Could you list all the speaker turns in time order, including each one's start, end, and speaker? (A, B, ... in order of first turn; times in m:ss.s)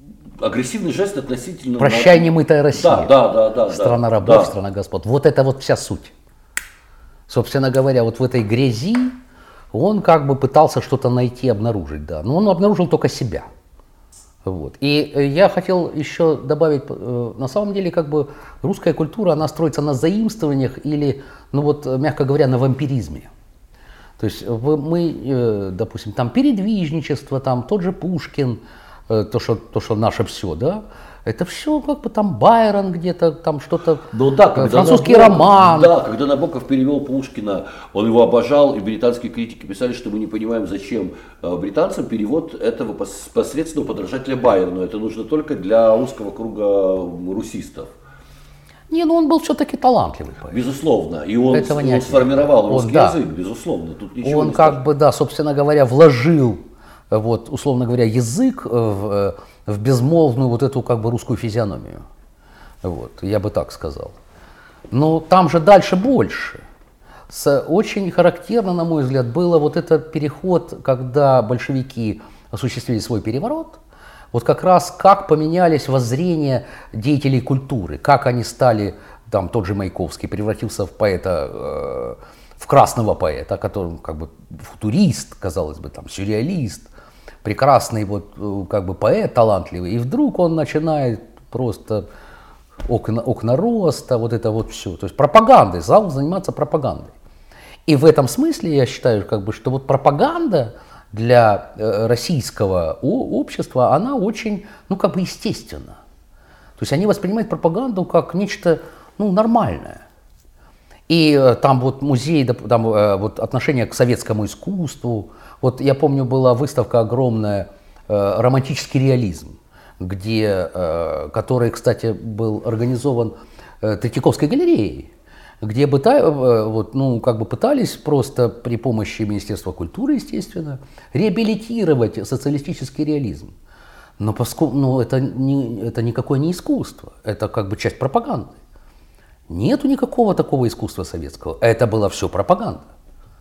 0:00.4-0:04.5 A
0:01.8-0:03.1 B
0:03.7-0:06.1 B
0:07.3-0:09.2 B
0:09.7-0:13.5 B
0:14.4-0:23.3 B
0:24.2-0:36.0 B
0:34.1-0:47.9 A
0:48.9-0:50.6 B
0:50.5-0:54.8 A
0:51.5-0:53.2 B
0:54.2-1:02.0 B
1:02.8-1:04.2 B
1:04.9-1:06.6 B
1:07.3-1:13.8 B
1:14.3-1:26.9 B
1:27.4-1:32.1 B
1:32.9-1:37.1 B
1:37.9-1:46.0 B
1:46.8-1:50.0 B
1:51.1-2:05.1 B
2:05.6-2:13.5 B
2:14.2-2:18.5 B
2:19.5-2:22.9 B